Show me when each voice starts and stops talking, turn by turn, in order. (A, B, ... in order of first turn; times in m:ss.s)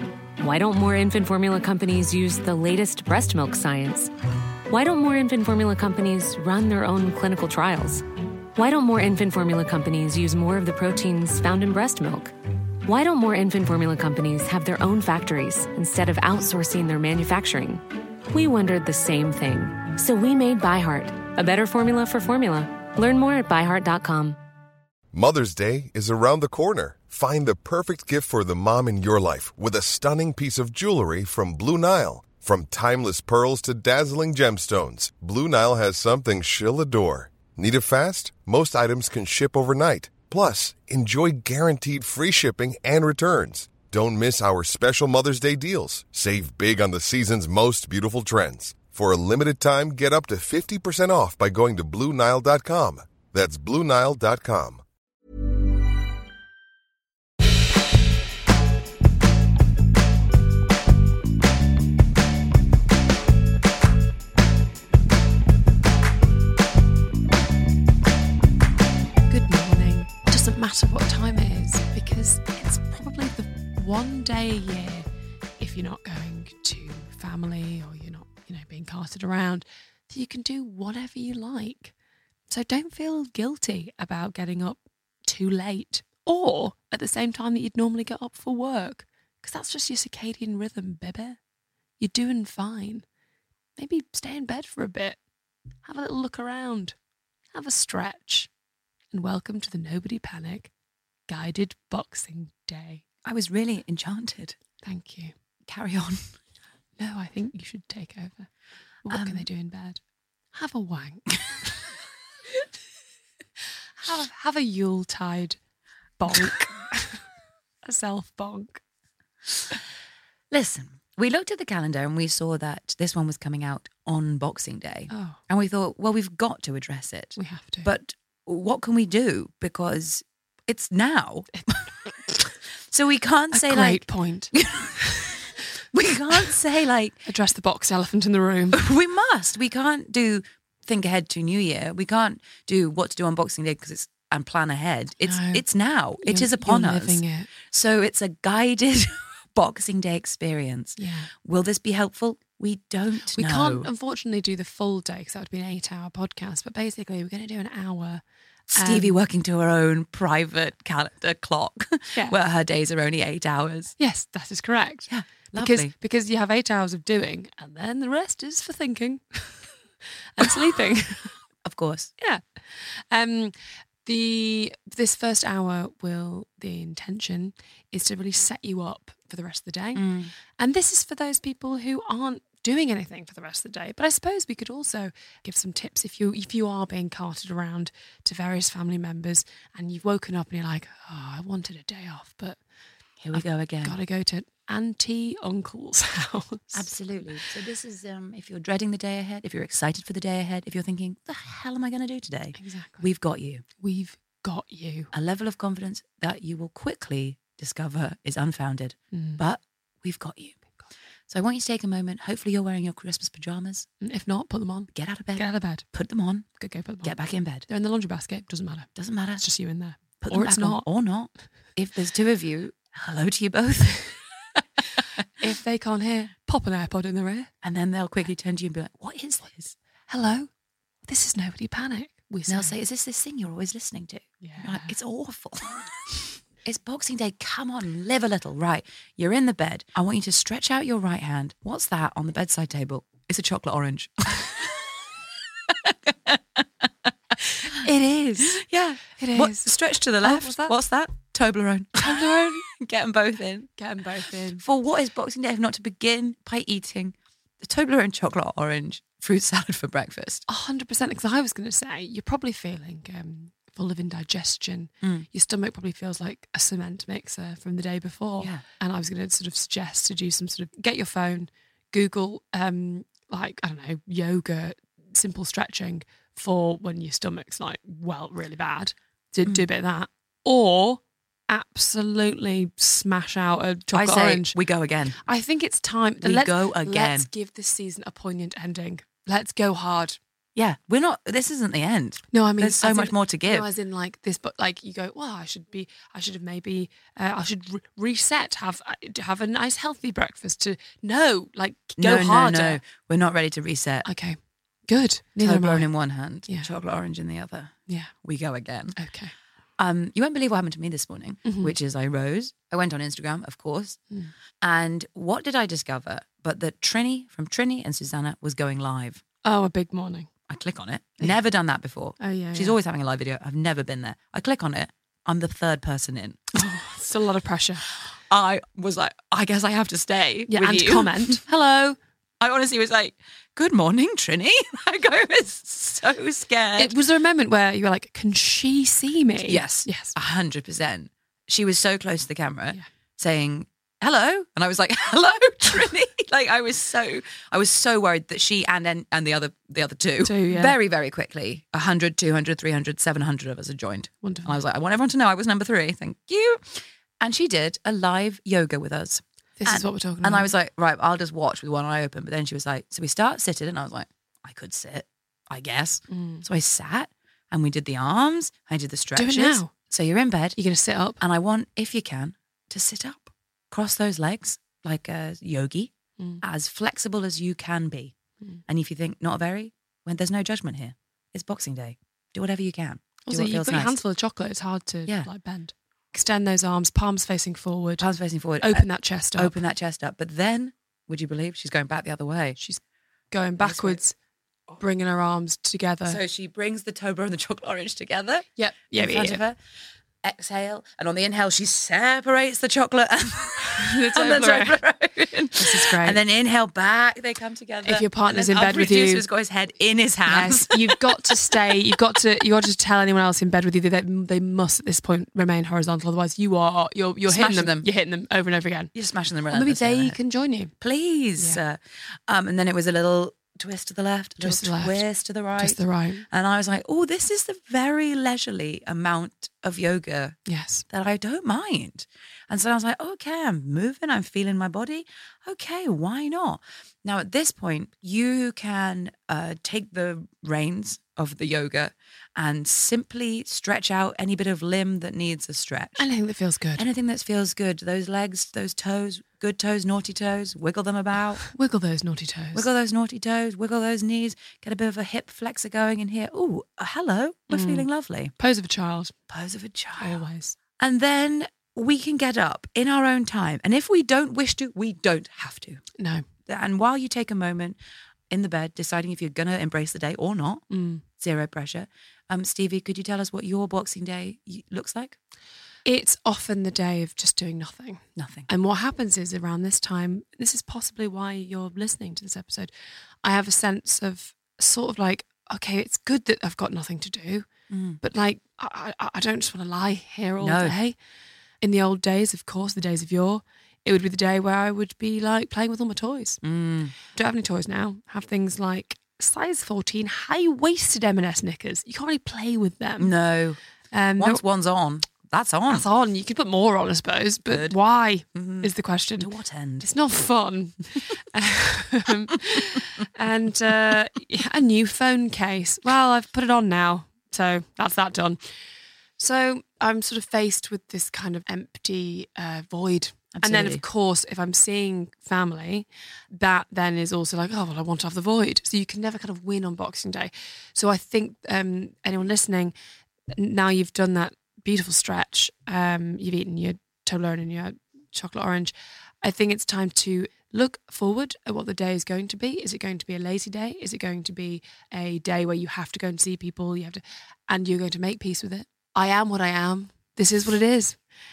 0:00.4-0:04.1 A
0:04.7-0:08.0 A
0:08.5-0:12.3 A
0:12.8-0:24.4 A
0:25.1-0:54.8 B
1:09.3-1:15.0 C
1:15.6-1:21.9 C
1:22.5-1:31.4 C
1:32.0-1:33.0 C
1:33.8-1:35.2 C
1:35.8-1:36.9 C
1:37.5-1:38.5 C
1:39.1-1:40.7 C
1:41.3-1:43.0 C
1:43.2-1:44.5 D
1:44.8-1:45.3 C
1:45.7-1:46.3 D
1:47.0-1:48.5 C
1:49.0-1:50.0 C
1:49.1-1:49.4 D
1:50.5-1:51.7 C
1:54.0-1:55.6 C
1:56.2-1:57.2 C
1:57.8-1:58.8 C
2:00.5-2:11.6 D
2:05.1-2:05.4 C
2:07.4-2:07.9 C
2:12.9-2:14.0 D
2:13.5-2:14.5 C
2:14.5-2:17.2 D
2:17.3-2:18.8 C
2:18.7-2:33.9 D
2:25.2-2:25.6 C
2:26.2-2:27.5 C
2:31.0-2:31.3 C
2:33.4-2:38.2 C
2:38.7-2:43.9 D
2:38.8-2:39.2 C
2:44.0-2:45.0 C
2:45.1-2:45.9 D
2:45.6-2:49.6 C
2:50.4-2:51.3 C
2:51.6-2:52.1 D
2:52.2-2:53.5 C
2:54.0-3:00.0 C
2:59.9-3:00.3 D
3:00.6-3:12.6 C
3:13.2-3:14.0 D
3:13.3-3:16.8 C
3:16.7-3:23.6 D
3:22.6-3:23.0 C
3:23.8-3:25.1 C
3:25.1-3:30.5 D
3:29.1-3:29.4 C
3:31.3-3:33.9 D
3:34.0-3:35.8 C
3:34.9-3:36.5 D
3:36.6-3:37.1 C
3:37.0-3:37.7 D
3:37.7-3:40.8 C
3:39.0-3:39.4 D
3:40.2-3:44.1 D
3:45.4-3:47.5 C
3:47.6-3:49.7 D
3:50.1-3:50.5 C
3:51.1-3:52.7 C
3:52.5-3:55.8 D
3:54.4-3:54.9 C
3:56.6-4:04.8 D
4:05.7-4:06.9 D
4:07.7-4:08.6 C
4:08.5-4:13.7 D
4:09.2-4:09.6 C
4:10.2-4:10.7 C
4:13.8-4:14.6 C
4:14.6-4:20.4 D
4:20.5-4:44.5 C
4:43.9-4:45.2 D
4:45.2-4:50.2 C
4:46.2-4:47.3 D
4:50.6-4:53.7 D
4:52.3-5:02.8 C
5:02.0-5:04.0 D
5:04.0-5:05.9 C
5:05.4-5:09.0 D
5:09.0-5:09.3 C
5:09.8-5:14.0 D
5:11.4-5:11.7 C
5:14.6-5:19.2 D
5:19.4-5:20.3 C
5:20.5-5:26.6 D
5:22.2-5:22.8 C
5:26.6-5:27.8 C
5:28.3-5:31.4 D
5:30.5-5:32.0 C
5:32.4-5:36.9 D
5:36.8-5:40.1 C
5:39.4-6:10.6 D
5:50.2-5:50.7 C
5:54.2-5:54.6 C
5:59.6-6:00.5 C
6:06.1-6:06.4 C
6:09.2-6:09.7 C
6:10.6-6:11.2 C
6:11.2-6:18.1 D
6:18.7-6:23.9 D
6:23.2-6:28.0 C
6:28.0-6:32.6 D
6:28.6-6:29.5 C
6:32.6-6:34.1 C
6:33.6-6:34.0 D
6:34.8-6:36.2 C
6:36.1-6:39.6 D
6:38.6-6:39.4 C
6:40.2-6:51.9 D
6:43.7-6:44.8 C
6:45.6-6:46.2 C
6:47.8-6:49.2 C
6:50.3-6:58.9 C
6:57.3-6:57.9 D
6:58.9-7:00.2 D
6:59.5-7:00.7 C
7:00.8-7:05.8 D
7:04.4-7:05.0 C
7:05.6-7:06.2 C
7:06.3-7:10.4 D
7:10.5-7:10.8 C
7:10.9-7:26.0 D
7:26.0-7:26.8 C
7:26.8-7:31.4 D
7:31.4-7:32.7 C
7:32.5-7:38.3 D
7:37.5-7:37.8 C
7:38.4-7:39.1 C
7:39.3-7:40.2 D
7:40.0-7:40.6 C
7:40.8-7:45.8 D
7:46.0-7:46.2 C
7:46.5-7:47.8 D
7:48.3-7:50.6 D
7:50.7-7:51.0 C
7:51.2-7:55.2 D
7:55.8-8:02.7 C
7:58.2-7:58.5 D
8:03.2-8:07.4 C
8:07.7-8:08.0 D
8:08.0-8:11.0 C
8:10.4-8:10.7 D
8:11.6-8:16.4 C
8:16.4-8:16.9 D
8:17.1-8:23.1 C
8:23.0-8:23.6 D
8:23.9-8:24.4 C
8:24.2-8:25.8 D
8:25.7-8:38.4 C
8:27.5-8:27.8 D
8:28.3-8:29.9 D
8:39.2-8:52.7 C
8:43.3-8:43.8 D
8:53.3-9:11.0 C